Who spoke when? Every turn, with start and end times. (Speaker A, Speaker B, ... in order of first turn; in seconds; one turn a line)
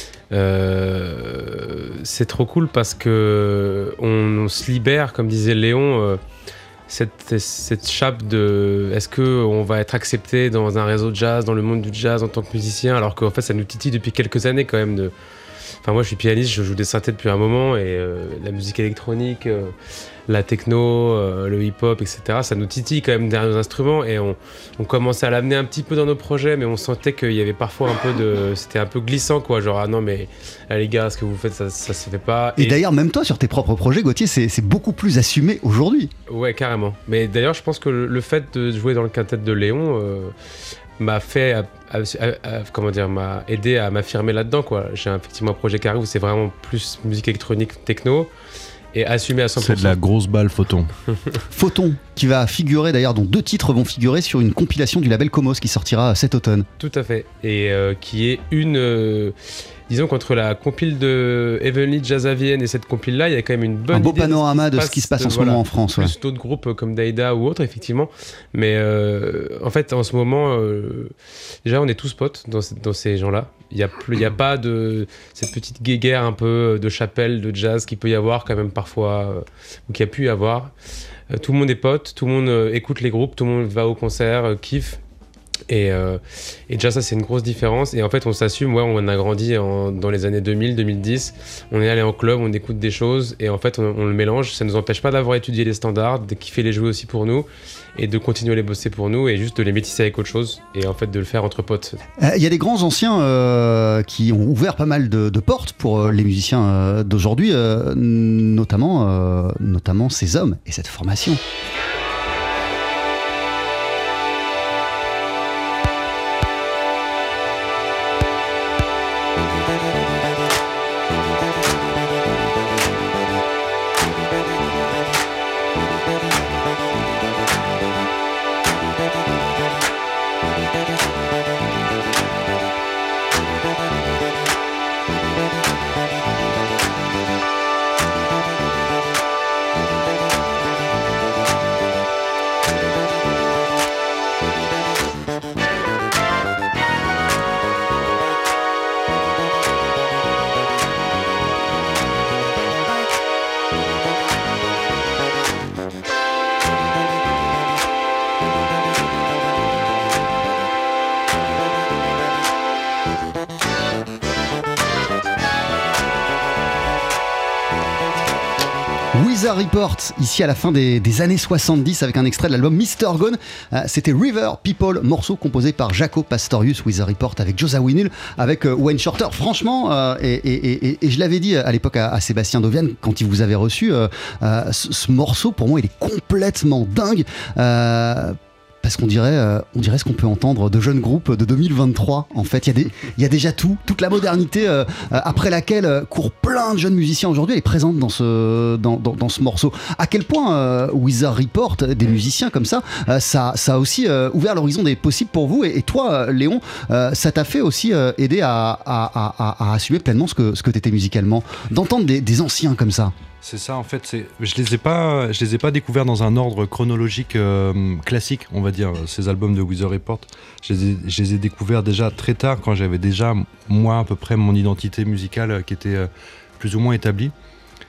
Speaker A: 0.3-6.2
Speaker A: 6.9-15.1
Speaker A: 15.8-19.7
Speaker A: 20.3-32.8
Speaker B: 32.6-36.1
Speaker A: 36.3-40.4
Speaker A: 41.0-48.3
Speaker A: 48.9-50.0
Speaker C: 49.6-50.9
Speaker B: 51.5-56.7
Speaker A: 56.8-59.4
Speaker A: 59.9-80.7
Speaker B: 63.9-66.2
Speaker A: 81.3-85.0
Speaker A: 85.7-102.0
Speaker B: 102.2-111.4
Speaker B: 169.1-213.1
Speaker C: 213.4-227.3